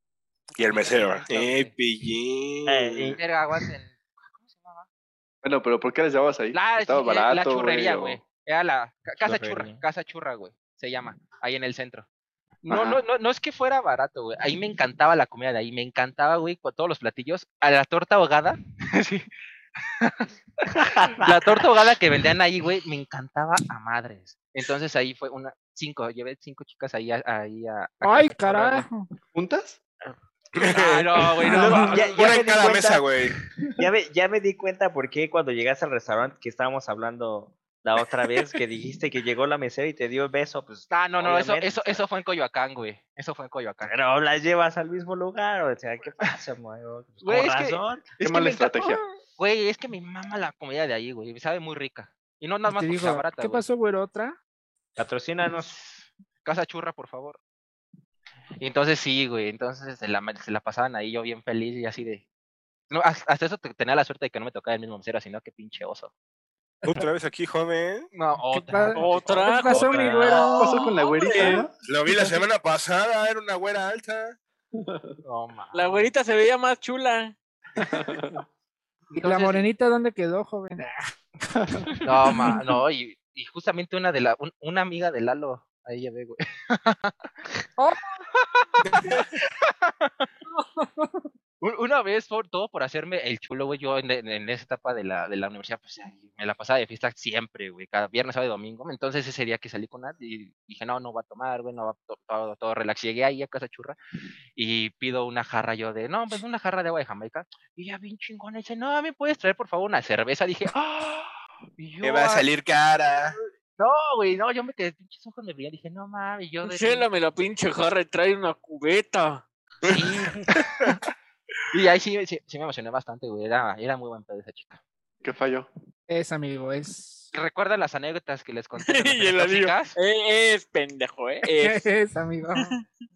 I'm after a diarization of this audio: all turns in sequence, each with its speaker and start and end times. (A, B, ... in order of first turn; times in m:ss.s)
0:00.5-0:01.7 A
0:00.6-0:03.2 B
0:02.7-0:03.2 C
0:03.2-0:04.9 A
0:05.4-0:08.2 D
0:06.5-0:12.1 A
0:09.2-0:09.8 C
0:12.6-0:19.3 A
0:12.7-0:13.0 D
0:20.0-0:20.3 A
0:20.8-0:21.6 C
0:21.2-0:28.9 A
0:28.0-0:29.1 E
0:29.3-0:29.8 D
0:30.6-0:33.4 B
0:30.7-0:32.4 A
0:31.5-0:33.0 C
0:31.5-0:32.0 E
0:33.8-0:42.0 C
0:40.9-0:43.9 A
0:43.8-0:48.0 C
0:47.2-0:53.7 A
0:48.2-0:49.0 D
0:52.7-0:54.4 E
0:55.0-0:55.7 C
0:55.5-0:57.4 A
0:58.6-1:02.2 A
1:02.9-1:06.1 A
1:06.8-1:08.1 B
1:08.1-1:10.6 A
1:08.5-1:10.7 E
1:09.0-1:11.7 F
1:10.5-1:11.7 D
1:11.8-1:14.4 B
1:14.8-1:15.1 D
1:15.2-1:16.1 A
1:15.7-1:17.3 F
1:17.8-1:18.4 D
1:19.1-1:19.7 A
1:19.2-1:21.1 E
1:22.0-1:27.1 A
1:27.8-1:28.0 E
1:28.4-1:30.3 A
1:28.8-1:29.2 B
1:30.6-1:31.1 E
1:31.6-1:44.0 A
1:44.6-1:51.3 A
1:51.8-1:52.5 A
1:52.0-1:53.4 B
1:53.8-1:57.1 A
1:56.6-1:59.4 F
1:59.8-2:00.2 B
1:59.8-2:00.5 A
2:01.7-2:04.8 A
2:05.2-2:05.7 D
2:06.1-2:07.3 E
2:07.3-2:10.0 A
2:08.8-2:11.9 F
2:11.5-2:12.8 E
2:12.6-2:12.8 F